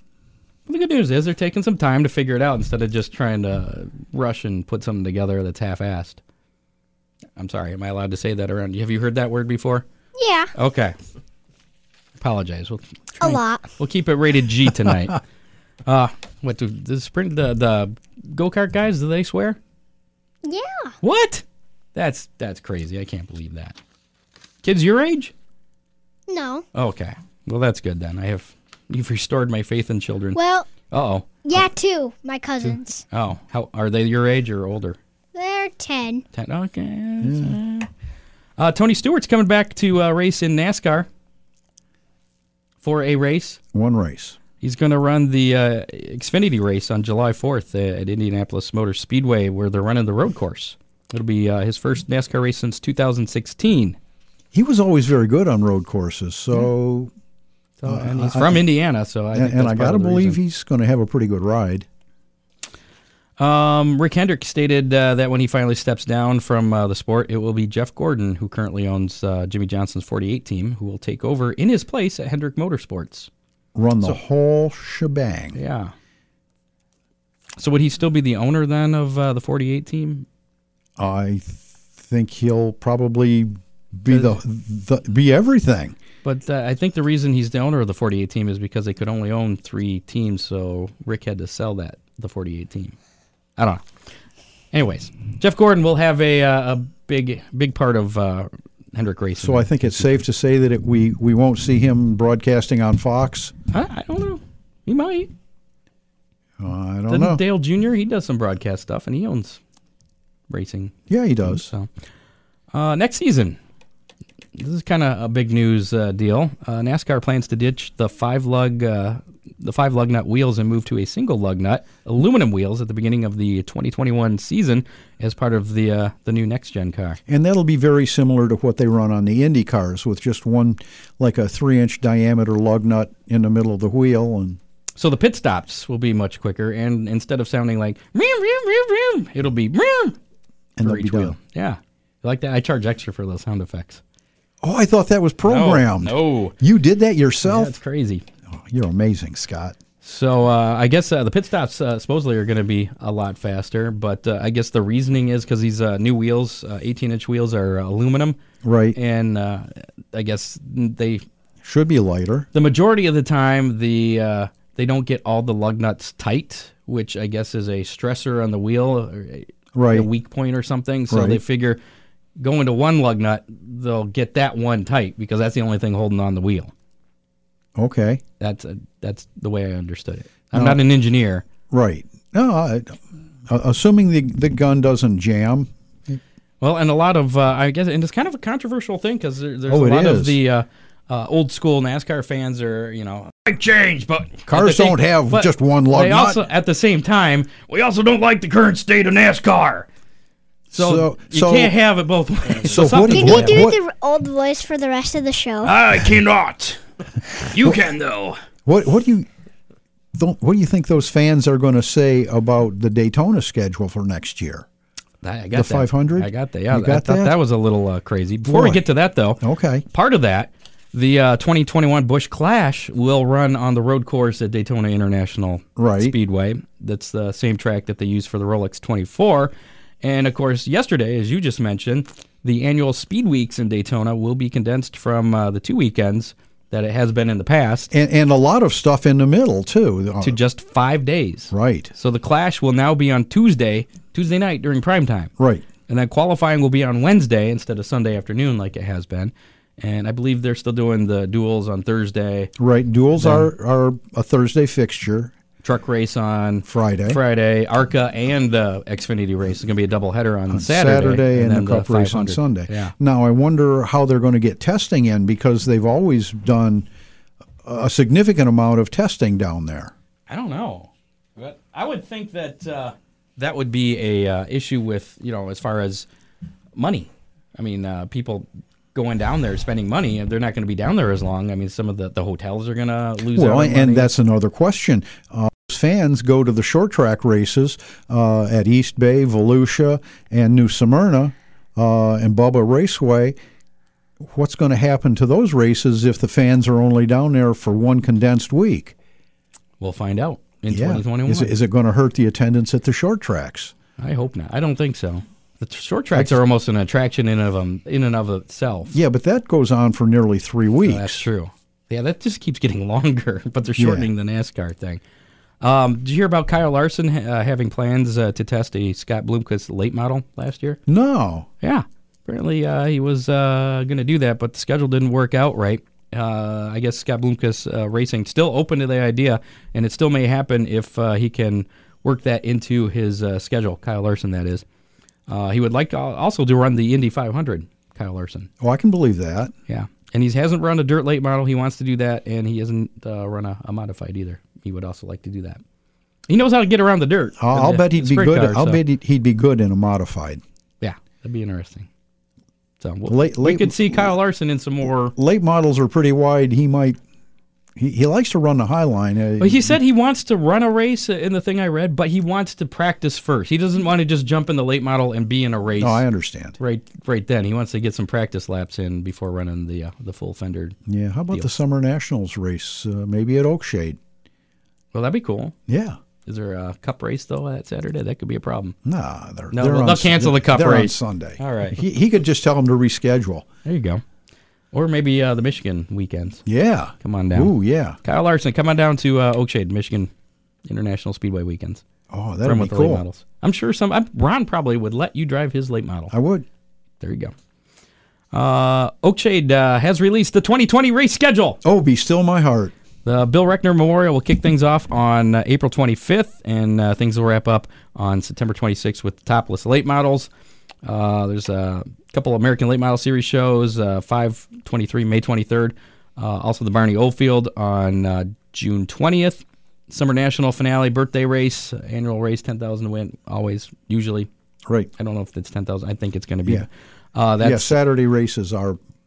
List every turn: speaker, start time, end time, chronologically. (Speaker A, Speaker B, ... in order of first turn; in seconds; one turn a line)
Speaker A: 0.7-6.2
Speaker A: 7.4-9.9
Speaker B: 10.2-10.5
Speaker A: 10.6-10.9
Speaker A: 12.2-15.2
Speaker B: 13.2-13.7
Speaker A: 15.9-19.6
Speaker B: 20.4-21.0
Speaker A: 21.0-21.4
Speaker A: 21.9-23.8
Speaker A: 24.6-25.3
Speaker B: 26.3-26.7
Speaker A: 26.7-30.4
Speaker B: 30.4-30.7
Speaker A: 30.9-31.3
Speaker B: 31.4-33.0
Speaker A: 33.1-35.0
Speaker B: 35.3-36.2
Speaker A: 36.3-37.9
Speaker C: 37.2-37.6
Speaker A: 38.6-41.1
Speaker A: 42.8-43.6
Speaker C: 43.7-44.4
Speaker A: 44.6-54.0
Speaker C: 54.5-57.1
Speaker A: 57.8-60.4
Speaker C: 57.9-58.7
Speaker C: 59.3-61.9
Speaker A: 63.4-73.3
Speaker C: 73.8-75.6
Speaker A: 75.5-75.9
Speaker A: 77.6-80.3
Speaker C: 81.0-86.0
Speaker A: 84.1-84.4
Speaker A: 86.2-93.0
Speaker A: 93.6-93.8
Speaker A: 94.7-100.1
Speaker C: 99.4-103.5
Speaker A: 103.7-105.3
Speaker C: 106.6-107.4
Speaker A: 107.1-109.6
Speaker A: 110.5-111.9
Speaker C: 111.1-111.7
Speaker A: 112.7-113.6
Speaker A: 114.5-127.2
Speaker C: 127.3-134.6
Speaker A: 135.0-140.2
Speaker C: 140.8-141.4
Speaker A: 140.8-144.0
Speaker C: 144.6-147.8
Speaker A: 145.4-146.6
Speaker A: 147.4-148.2
Speaker C: 148.5-149.8
Speaker A: 150.0-158.4
Speaker C: 158.6-159.0
Speaker A: 158.9-161.2
Speaker C: 161.6-162.5
Speaker A: 162.5-171.8
Speaker C: 169.7-170.1
Speaker C: 171.1-171.4
Speaker A: 172.4-176.7
Speaker C: 177.8-178.2
Speaker A: 178.4-181.4
Speaker C: 180.5-180.8
Speaker C: 181.7-186.2
Speaker A: 186.6-199.9
Speaker C: 189.7-190.4
Speaker C: 194.5-196.4
Speaker C: 200.7-201.7
Speaker A: 200.7-203.7
Speaker C: 202.6-203.8
Speaker B: 203.0-205.7
Speaker A: 205.6-206.8
Speaker A: 207.3-208.4
Speaker C: 208.7-209.3
Speaker C: 210.1-214.7
Speaker A: 215.2-219.4
Speaker C: 215.5-217.4
Speaker C: 218.4-218.8
Speaker C: 219.4-219.8
Speaker A: 219.9-237.9
Speaker C: 225.8-226.2
Speaker C: 237.9-240.4
Speaker A: 240.2-245.3
Speaker C: 241.5-241.9
Speaker C: 245.4-245.7
Speaker A: 245.9-252.5
Speaker C: 252.6-255.3
Speaker A: 253.2-253.5
Speaker A: 255.6-262.9
Speaker C: 256.6-257.2
Speaker C: 260.5-266.9
Speaker C: 267.6-269.9
Speaker A: 270.3-276.1
Speaker A: 276.8-284.1
Speaker C: 283.3-293.4
Speaker C: 294.2-298.9
Speaker A: 299.8-301.5
Speaker C: 300.7-303.7
Speaker A: 304.0-308.9
Speaker C: 308.9-311.2
Speaker A: 310.9-315.0
Speaker C: 313.8-314.1
Speaker A: 315.6-320.8
Speaker C: 320.9-321.5
Speaker A: 321.6-334.6
Speaker A: 335.3-338.5
Speaker C: 338.6-339.5
Speaker A: 339.7-345.6
Speaker A: 346.3-348.8
Speaker C: 347.4-350.4
Speaker A: 350.8-351.9
Speaker A: 352.8-355.1
Speaker C: 353.1-354.1
Speaker C: 355.1-357.0
Speaker C: 357.8-359.8
Speaker A: 359.4-366.1
Speaker C: 365.8-366.6
Speaker A: 366.6-370.8
Speaker C: 370.9-374.0
Speaker A: 371.3-371.6
Speaker A: 374.9-375.5
Speaker C: 375.7-376.0
Speaker A: 376.3-378.8
Speaker C: 378.9-383.5
Speaker A: 379.5-381.8
Speaker A: 383.7-384.0
Speaker A: 384.7-386.4
Speaker C: 386.5-388.0
Speaker A: 387.0-390.1
Speaker A: 390.6-391.8
Speaker C: 392.1-393.0
Speaker A: 392.4-396.1
Speaker C: 396.1-396.5
Speaker A: 397.0-397.3
Speaker A: 398.3-401.6
Speaker C: 401.6-402.7
Speaker A: 403.0-410.3
Speaker A: 410.8-424.3
Speaker A: 425.0-427.8
Speaker C: 427.4-428.8